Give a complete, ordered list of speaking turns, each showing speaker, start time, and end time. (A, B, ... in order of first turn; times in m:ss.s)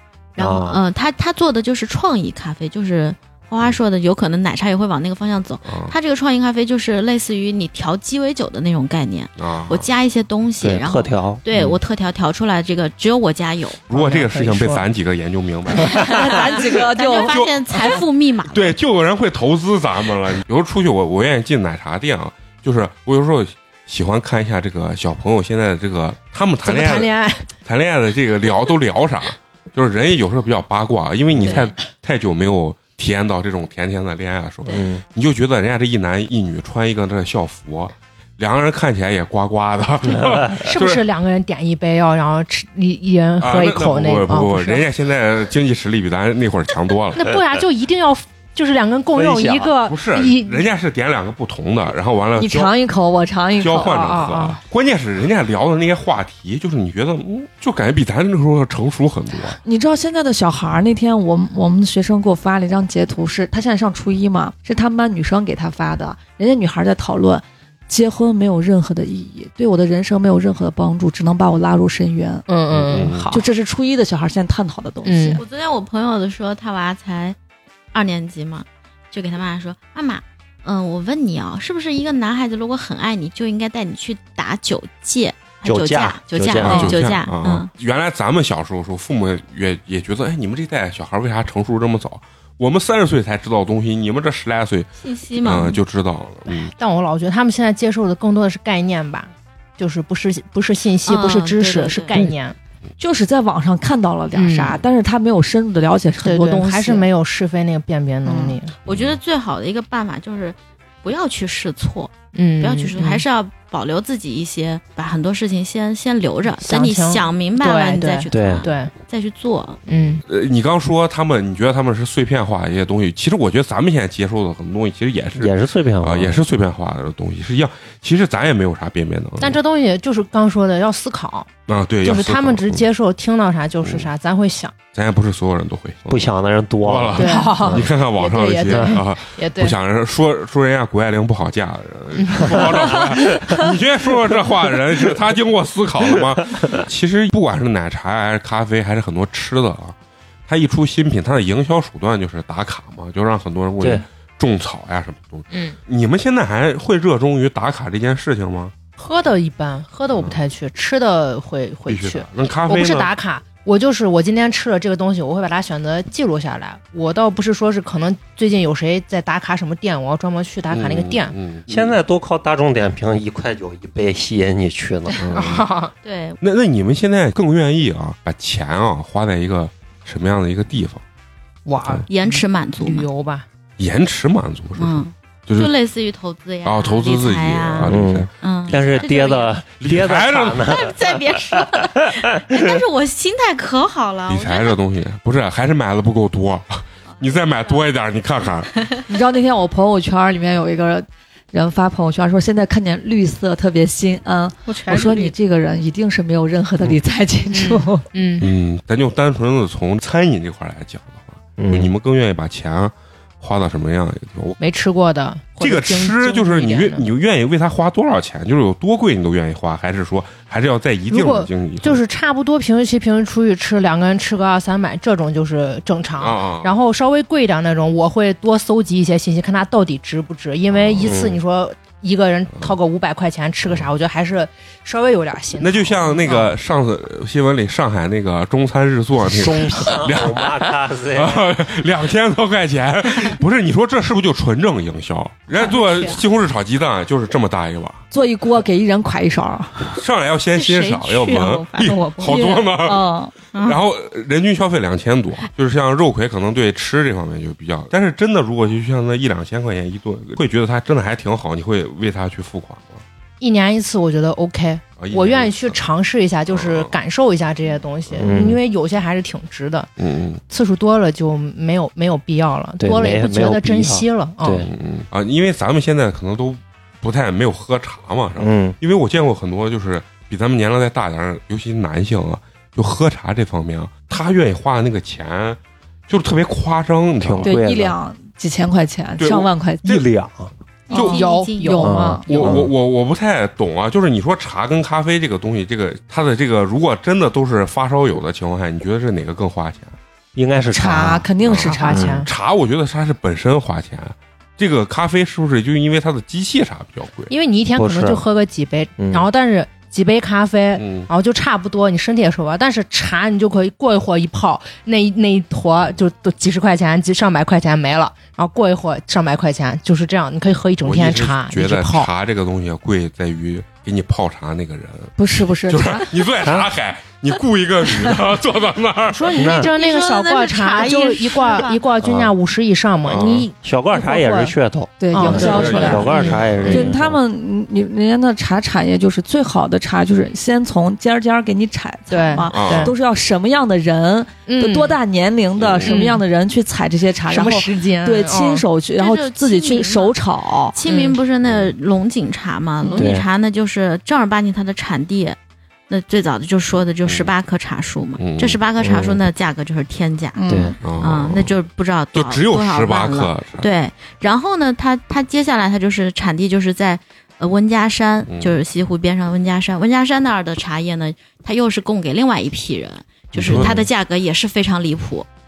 0:00.4-0:13.8 A
0:00.4-0:00.8 B
0:05.7-0:06.0 C
0:09.4-0:09.9 C
0:10.6-0:11.7 B
0:13.9-0:16.6 C
0:13.9-0:14.8 D
0:16.0-0:18.0 E
0:16.8-0:18.8 A
0:17.2-0:27.1 C
0:26.6-0:27.5 D
0:27.6-0:41.0 C
0:34.7-0:35.0 B
0:40.2-0:40.5 B
0:40.6-0:44.9 D
0:43.4-0:47.2 C
0:47.2-0:50.6 D
0:49.1-0:49.8 B
0:49.8-0:52.7 C
0:52.4-0:54.4 E
0:53.6-0:59.6 C
0:53.8-0:54.6 D
0:59.6-1:12.4 E
1:12.5-1:13.5 D
1:12.7-1:13.3 C
1:13.3-1:15.4 E
1:15.0-1:15.4 D
1:15.4-1:17.4 A
1:17.9-1:27.7 A
1:25.6-1:26.9 B
1:26.6-1:34.9 C
1:35.0-1:35.8 A
1:35.4-1:36.7 C
1:36.5-1:42.6 D
1:41.1-1:42.3 A
1:43.0-1:47.1 E
1:44.3-1:44.8 D
1:46.2-1:48.7 D
1:48.2-1:48.6 E
1:48.8-1:59.8 A
1:48.9-1:49.2 C
1:52.3-1:53.2 D
1:56.6-1:58.9 D
1:58.3-1:58.7 B
1:59.9-2:00.2 D
2:00.3-2:09.6 C
2:05.4-2:06.4 B
2:09.4-2:11.5 D
2:11.7-2:12.9 C
2:12.0-2:14.8 D
2:13.8-2:14.1 C
2:14.9-2:16.3 C
2:16.1-2:17.9 B
2:16.8-2:30.0 C
2:17.2-2:19.8 D
2:22.2-2:22.6 D
2:23.3-2:23.6 B
2:30.5-2:38.7 C
2:33.8-2:34.0 B
2:35.5-2:35.8 D
2:39.0-2:51.3 D
2:40.2-2:40.4 C
2:41.9-2:43.1 C
2:50.7-2:52.0 C
2:51.7-2:55.2 B
2:55.2-2:55.7 C
2:55.3-2:55.9 D
2:56.0-2:56.4 A
2:56.4-3:01.0 C
3:01.7-3:03.5 D
3:02.1-3:03.1 A
3:03.8-3:05.7 C
3:04.8-3:09.6 A
3:06.6-3:09.1 C
3:07.9-3:11.7 B
3:09.8-3:10.8 C
3:10.6-3:14.8 A
3:12.5-3:12.8 B
3:14.3-3:18.7 C
3:17.2-3:17.8 A
3:18.8-3:19.0 A
3:19.1-3:28.1 E
3:24.7-3:25.3 A
3:27.5-3:28.5 D
3:28.4-3:34.6 C
3:31.6-3:31.9 B
3:34.6-3:37.1 D
3:35.6-3:42.0 C
3:41.1-3:56.5 D
3:46.2-3:46.8 C
3:50.7-3:51.2 C
3:51.0-3:51.4 B
3:55.6-4:00.5 C
3:59.3-4:01.4 B
4:01.1-4:08.0 C
4:05.7-4:06.2 A
4:08.1-4:10.0 E
4:09.9-4:23.0 C
4:10.5-4:12.5 A
4:12.2-4:13.3 E
4:13.5-4:13.8 A
4:23.4-4:29.9 D
4:25.0-4:25.8 C
4:26.5-4:27.0 C
4:28.1-4:28.4 C
4:28.2-4:28.6 B
4:30.0-4:30.4 C
4:30.5-4:34.7 D
4:32.8-4:34.7 B
4:34.7-4:47.6 C
4:38.4-4:38.8 B
4:47.2-4:48.0 B
4:47.4-4:50.0 E
4:49.2-4:50.0 C
4:49.8-4:50.5 B
4:50.9-4:51.9 A
4:50.9-4:52.3 E
4:50.9-4:52.5 D
4:51.8-4:52.7 B
4:52.3-5:00.0 C
5:00.4-5:01.3 B
5:00.7-5:02.2 E
5:01.4-5:07.3 C
5:01.6-5:02.3 D
5:01.9-5:02.2 B
5:07.3-5:22.1 D
5:07.8-5:08.2 B
5:09.0-5:09.3 B
5:10.8-5:11.1 C
5:20.8-5:29.7 C
5:25.2-5:26.2 E
5:26.4-5:26.7 B
5:29.1-5:34.5 D
5:29.4-5:29.7 B
5:29.7-5:31.8 A
5:30.8-5:31.4 E
5:32.0-5:32.4 B
5:33.0-5:33.5 C
5:33.1-5:37.2 B
5:35.0-5:36.1 E
5:35.1-5:36.9 D
5:35.3-5:36.9 C
5:36.7-5:50.8 E
5:42.1-5:43.0 D
5:42.5-5:42.9 C
5:44.5-5:45.0 D
5:45.6-5:46.0 C
5:45.8-5:46.2 D
5:47.3-5:48.7 D
5:49.0-5:50.2 A
5:50.7-5:55.4 A
5:50.9-5:51.2 D
5:51.4-5:51.7 C
5:53.0-5:53.3 B
5:55.9-6:15.3 A
5:57.0-5:57.3 C
5:58.2-5:58.6 C
5:58.8-5:59.2 B
6:00.4-6:00.8 E
6:00.5-6:00.8 B
6:00.8-6:01.6 C
6:02.1-6:03.7 C
6:08.3-6:08.6 C
6:13.4-6:13.8 C
6:13.4-6:13.8 B